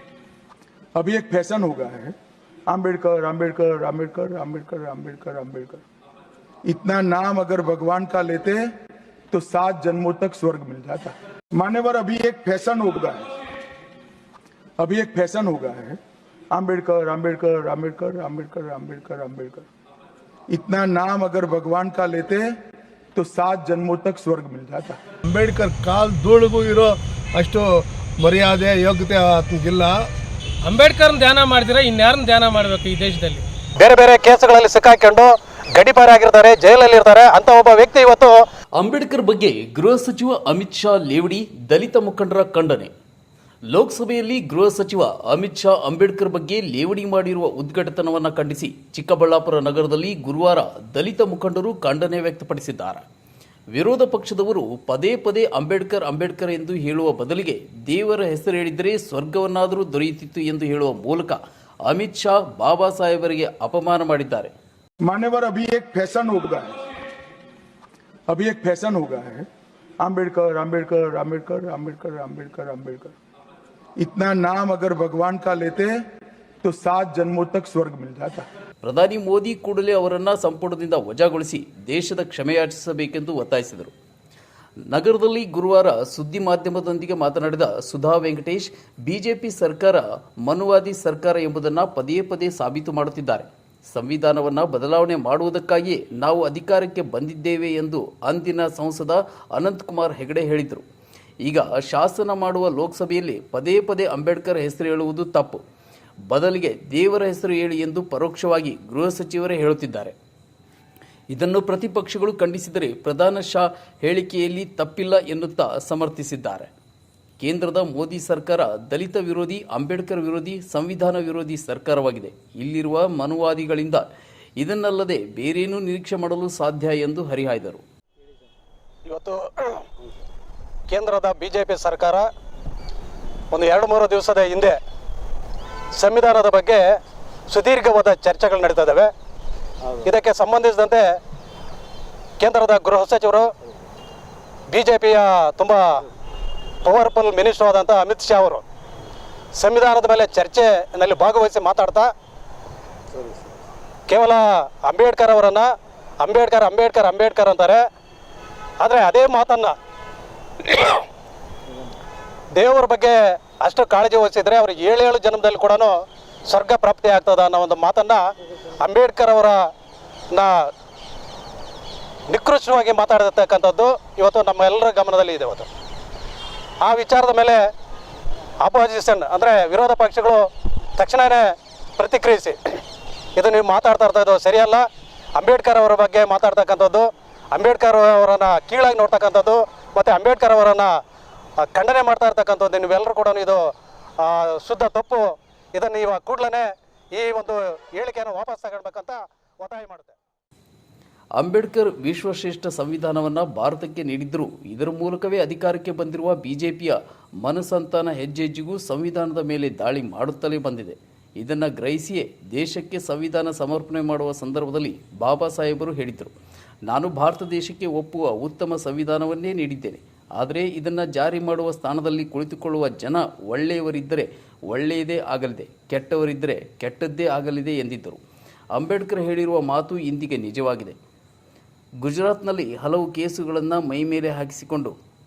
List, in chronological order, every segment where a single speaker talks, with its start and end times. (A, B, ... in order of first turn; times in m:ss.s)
0:01.0-0:02.1 A
0:02.7-0:05.8 A
0:06.7-0:08.6 A
0:09.3-0:13.2 A
0:14.8-0:16.0 A
0:16.6-0:19.6 A
0:20.6-0:22.4 A
0:23.2-0:24.9 A
0:25.3-0:29.9 B
0:30.7-0:33.4 C
0:33.8-0:38.3 D
0:38.8-0:42.9 E
0:43.7-0:53.1 E
0:53.7-1:04.5 E
1:05.1-1:06.6 A
1:08.3-1:09.4 A
1:10.0-1:13.1 A
1:14.0-1:15.9 A
1:16.6-1:18.4 A
1:18.8-1:23.9 E
1:24.9-1:40.9 E
1:41.4-1:45.6 E
1:46.3-1:50.2 E
1:51.3-1:56.7 E
1:57.4-2:04.1 E
2:04.6-2:07.8 E
2:09.1-2:09.8 D
2:10.9-2:12.3 D
2:13.5-2:14.8 D
2:16.0-2:16.8 D
2:17.5-2:19.1 D
2:20.0-2:21.0 D
2:22.4-2:23.5 D
2:24.7-2:26.0 D
2:26.8-2:28.6 D
2:29.6-2:32.1 D
2:34.1-2:35.7 D
2:36.2-2:37.8 D
2:38.8-2:39.7 D
2:40.6-2:41.0 D
2:42.6-2:45.9 D
2:46.5-2:48.2 D
2:48.8-2:49.6 D
2:52.3-2:55.7 D
2:56.8-2:57.6 D
2:58.6-3:00.5 D
3:01.0-3:02.6 D
3:03.4-3:04.8 D
3:05.4-3:10.9 D
3:11.6-3:13.6 D
3:14.2-3:15.2 D
3:15.8-3:20.2 D
3:21.4-3:36.3 E
3:36.9-3:48.2 E
3:48.7-3:51.0 E
3:52.0-3:55.0 E